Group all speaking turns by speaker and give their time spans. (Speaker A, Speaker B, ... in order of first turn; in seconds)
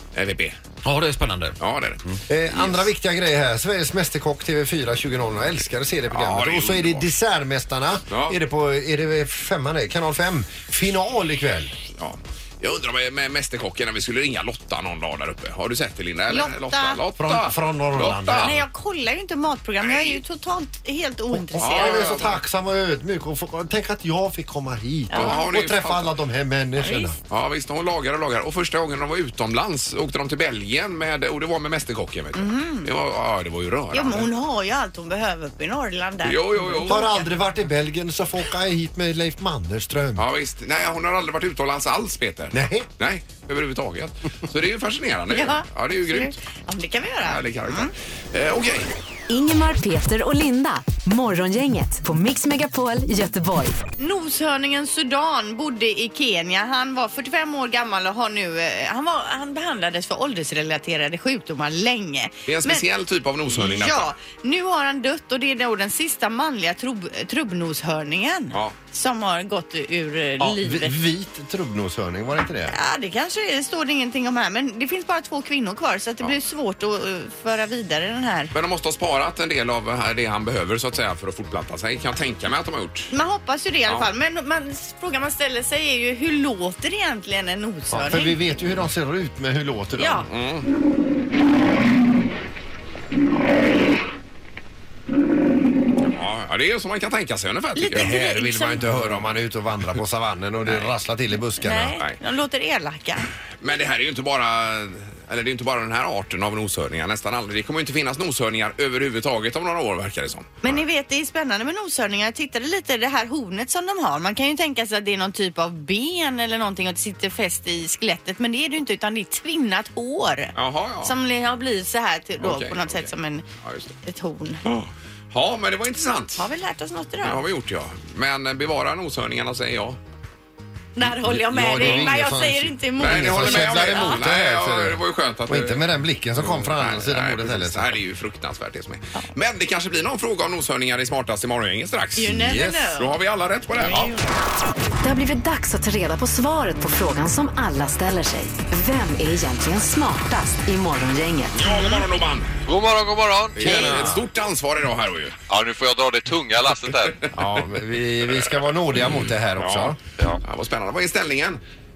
Speaker A: 0.1-0.6, 1.6-2.9, 6.1-7.1, 8.1-8.4, 11.9-18.5, 19.8-20.2, 21.6-22.4, 25.1-26.1, 27.3-34.3, 36.2-37.1, 40.1-46.4, 47.2-48.9, 62.5-64.1, 78.5-83.1, 90.2-90.7, 96.0-99.3, 103.6-110.8, 120.5-121.1, 122.4-124.0, 124.6-126.5, 127.2-130.0, 131.8-132.1, 133.0-142.3, 143.0-144.1, 151.5-152.6, 153.6-155.3, 159.6-161.6
Speaker B: 0.8-1.5, 2.3-11.8, 17.2-18.6, 21.3-27.1, 36.8-40.2, 42.5-42.9, 70.4-72.8, 87.9-90.2, 98.1-102.0, 131.2-138.0, 142.2-142.9, 153.6-154.2, 157.3-160.0
Speaker C: 16.3-17.0, 18.4-22.2, 25.1-25.5, 26.8-27.1, 32.3-32.9, 33.9-37.2, 45.3-47.9, 54.0-62.8, 63.5-71.0, 72.7-78.5, 83.1-88.3, 90.0-90.2, 97.8-98.8, 101.6-103.3, 110.6-123.5, 124.0-124.6, 126.4-127.4, 130.9-134.2, 142.2-143.1
Speaker D: 49.3-53.8, 145.0-151.7
Speaker E: 152.7-154.1, 155.5-157.3